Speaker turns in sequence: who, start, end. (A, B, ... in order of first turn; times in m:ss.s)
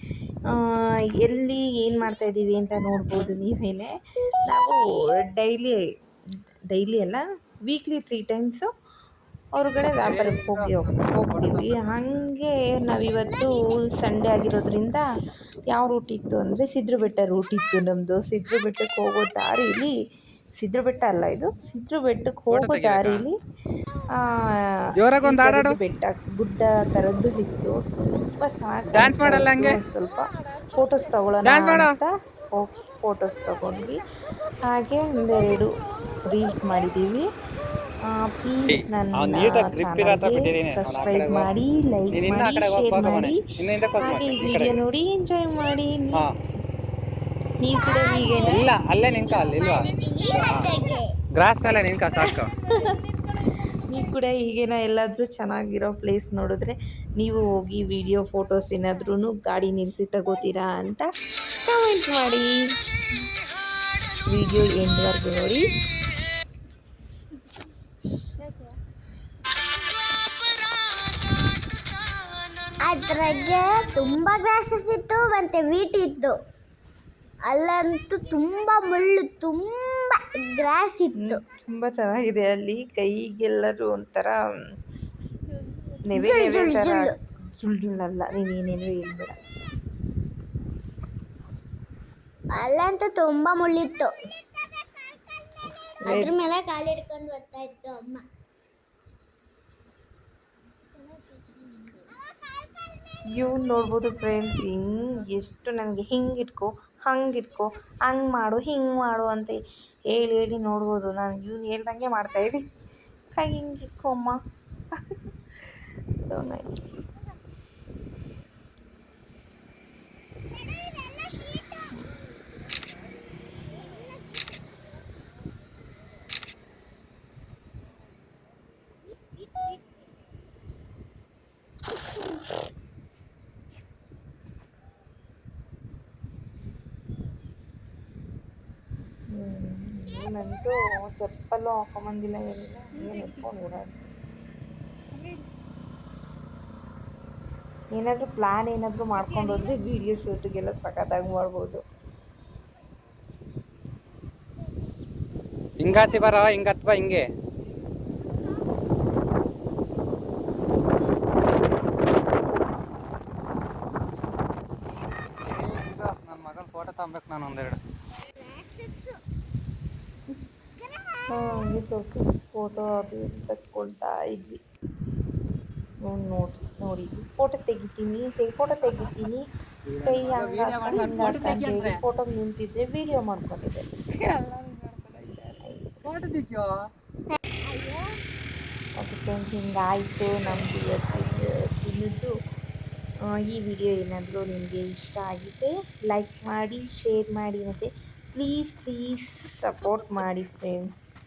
0:00.5-0:03.9 A
0:04.5-0:05.8 A
0:06.7-0:08.7 A
0:09.5-0:15.0 A
0:10.0-0:12.2 B
0:15.7-0:19.9 A
0:20.6-0:23.3 A
0:22.5-0:23.3 B
0:24.2-0:24.7 A
0:25.0-0:25.8 B
0:25.2-0:34.0 A
0:28.9-0:29.8 B
0:31.4-0:31.9 B
0:34.6-0:37.3 A
0:38.0-0:43.4 A
0:38.7-0:41.5 B
0:42.1-0:44.8 B
0:44.0-0:46.4 A
0:47.6-0:48.6 A
0:47.8-0:51.1 C
0:48.4-0:49.9 B
0:50.4-0:50.7 B
0:51.4-0:52.5 B
0:52.2-0:53.0 A
0:53.7-1:01.1 A
1:01.6-1:02.6 A
1:04.3-1:05.6 A
1:12.8-1:16.3 C
1:17.5-1:21.4 C
1:21.2-1:24.3 A
1:26.0-1:29.4 A
1:26.2-1:27.1 C
1:32.6-1:34.1 C
1:36.0-1:36.3 A
1:36.0-1:38.2 C
1:43.3-1:49.6 A
1:50.1-1:52.6 A
1:53.3-1:54.4 A
1:56.2-1:57.0 A
2:19.3-2:24.0 A
2:27.9-2:31.8 A
2:35.8-2:37.2 B
2:45.4-2:47.8 B
2:48.4-2:49.1 C
2:51.3-2:54.6 A
2:56.0-2:59.4 A
2:59.9-3:02.0 B
3:00.0-3:03.8 A
3:04.2-3:06.8 B
3:05.6-3:06.0 A
3:07.3-3:08.1 C
3:09.0-3:12.3 A
3:13.3-3:21.0 A